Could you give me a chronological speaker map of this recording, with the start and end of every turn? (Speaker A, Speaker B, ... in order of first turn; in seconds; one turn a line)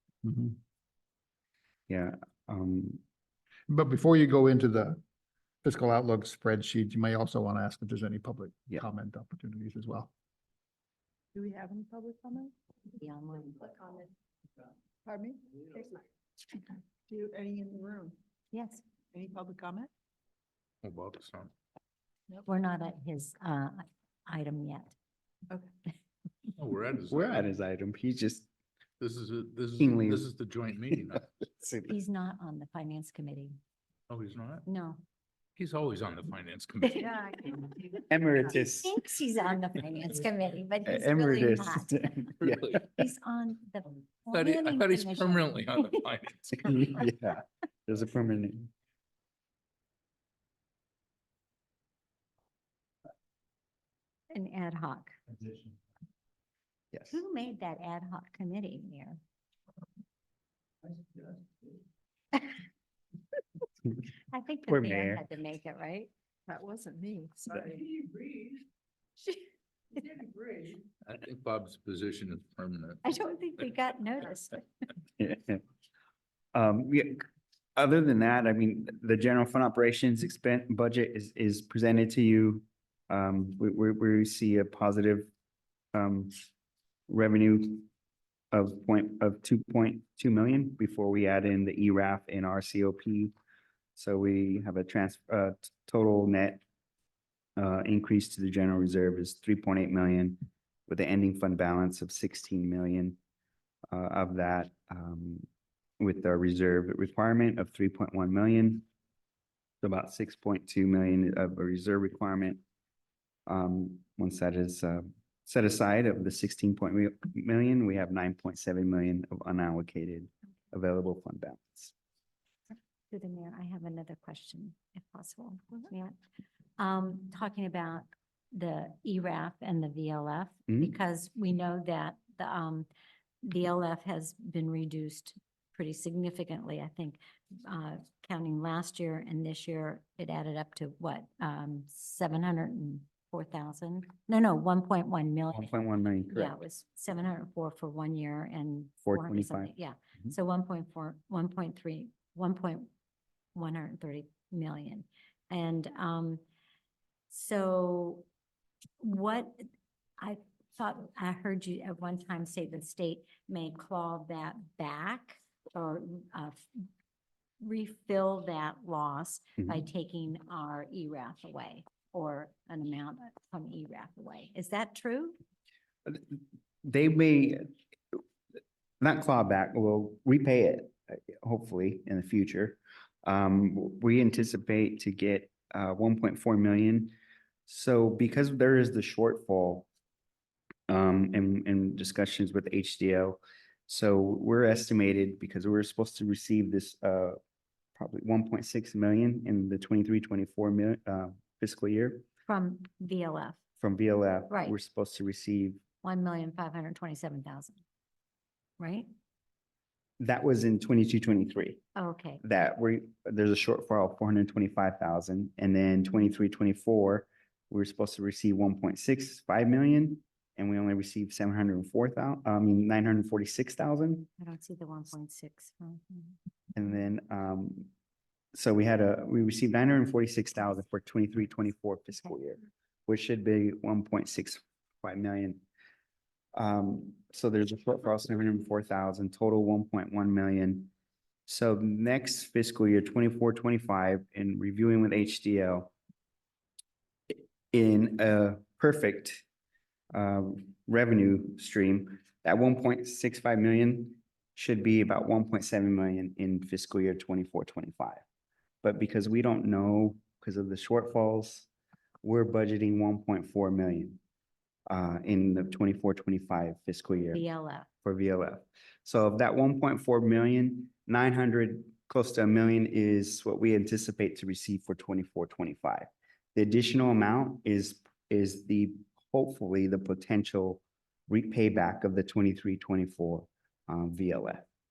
Speaker A: 0.2-0.6
Speaker B: 1.9-3.0
Speaker A: 3.7-5.0
Speaker A: 5.6-10.1
Speaker C: 11.3-12.5
Speaker D: 12.9-14.1
Speaker C: 15.1-18.1
Speaker D: 18.5-18.8
Speaker C: 19.1-19.9
Speaker E: 20.8-21.5
Speaker D: 22.4-24.9
Speaker E: 26.6-27.5
Speaker B: 27.1-28.5
Speaker E: 29.0-31.3
Speaker B: 29.8-30.3
Speaker B: 31.4-32.0
Speaker D: 31.9-33.6
Speaker E: 34.1-34.6
Speaker D: 34.7-35.0
Speaker E: 35.6-37.1
Speaker D: 36.9-38.0
Speaker B: 38.1-39.0
Speaker D: 38.8-42.3
Speaker B: 40.9-42.8
Speaker E: 42.4-42.9
Speaker D: 42.9-46.0
Speaker E: 44.3-46.7
Speaker B: 46.6-48.7
Speaker D: 54.3-55.1
Speaker B: 56.9-57.2
Speaker D: 57.1-59.2
Speaker D: 64.3-66.1
Speaker B: 64.7-65.2
Speaker C: 66.5-68.3
Speaker E: 71.0-73.0
Speaker D: 73.0-74.6
Speaker B: 75.2-75.6
Speaker B: 76.5-77.2
Speaker B: 77.8-85.3
Speaker B: 85.9-86.5
Speaker B: 87.1-87.9
Speaker B: 88.5-93.3
Speaker B: 94.0-96.6
Speaker B: 97.6-103.2
Speaker B: 103.9-105.5
Speaker B: 106.0-108.9
Speaker B: 109.8-112.6
Speaker B: 113.5-121.9
Speaker D: 123.1-126.2
Speaker D: 126.8-132.9
Speaker B: 130.7-130.9
Speaker D: 133.4-145.7
Speaker B: 145.5-146.6
Speaker D: 146.3-152.9
Speaker B: 149.1-149.7
Speaker D: 153.6-156.4
Speaker D: 157.3-158.3
Speaker D: 159.0-159.7
Speaker D: 160.2-166.8
Speaker D: 167.6-175.4
Speaker B: 176.1-178.2
Speaker B: 179.0-187.2
Speaker B: 187.7-189.9
Speaker B: 190.9-197.4
Speaker B: 198.0-202.2
Speaker D: 202.5-203.6
Speaker B: 203.8-205.8
Speaker D: 204.5-204.8
Speaker D: 206.0-207.8
Speaker D: 208.8-209.1
Speaker B: 210.2-211.8
Speaker D: 212.0-212.4
Speaker B: 212.4-224.3
Speaker D: 224.4-226.4
Speaker B: 226.8-227.9
Speaker B: 228.5-235.6
Speaker B: 236.5-240.9
Speaker B: 241.5-245.9
Speaker B: 247.3-249.4
Speaker B: 250.1-258.2
Speaker B: 258.8-261.7
Speaker B: 262.2-264.2
Speaker B: 264.9-267.4
Speaker D: 267.3-267.9
Speaker B: 268.1-284.7